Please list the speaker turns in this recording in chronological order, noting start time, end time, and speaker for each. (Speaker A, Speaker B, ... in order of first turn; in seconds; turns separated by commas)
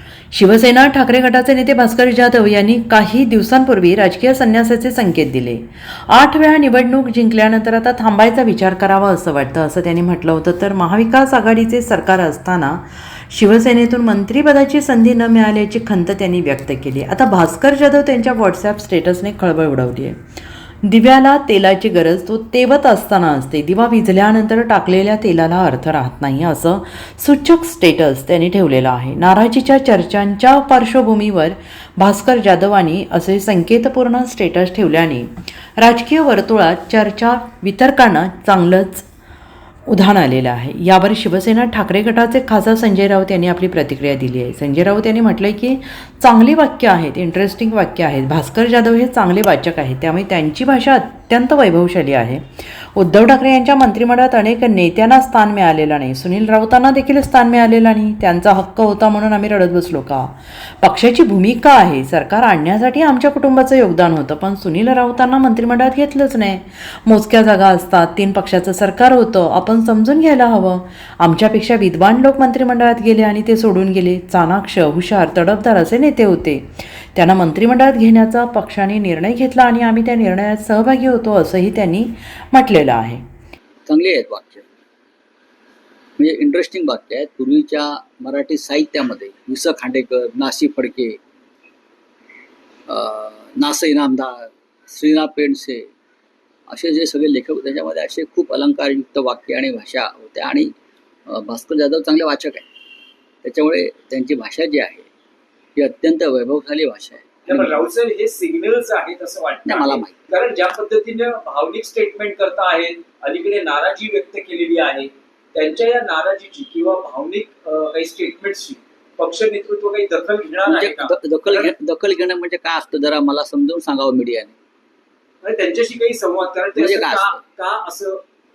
Speaker A: 0.3-20.2, Speaker A: 20.8-39.0, Speaker A: 39.9-83.2, Speaker B: 83.9-84.6, Speaker B: 86.2-91.2, Speaker B: 92.9-95.9, Speaker B: 96.7-100.7, Speaker B: 101.3-102.6, Speaker B: 103.4-105.1, Speaker B: 105.8-107.8, Speaker C: 107.5-121.7, Speaker B: 109.7-110.2, Speaker B: 120.6-124.5, Speaker C: 125.4-128.2, Speaker B: 126.7-127.4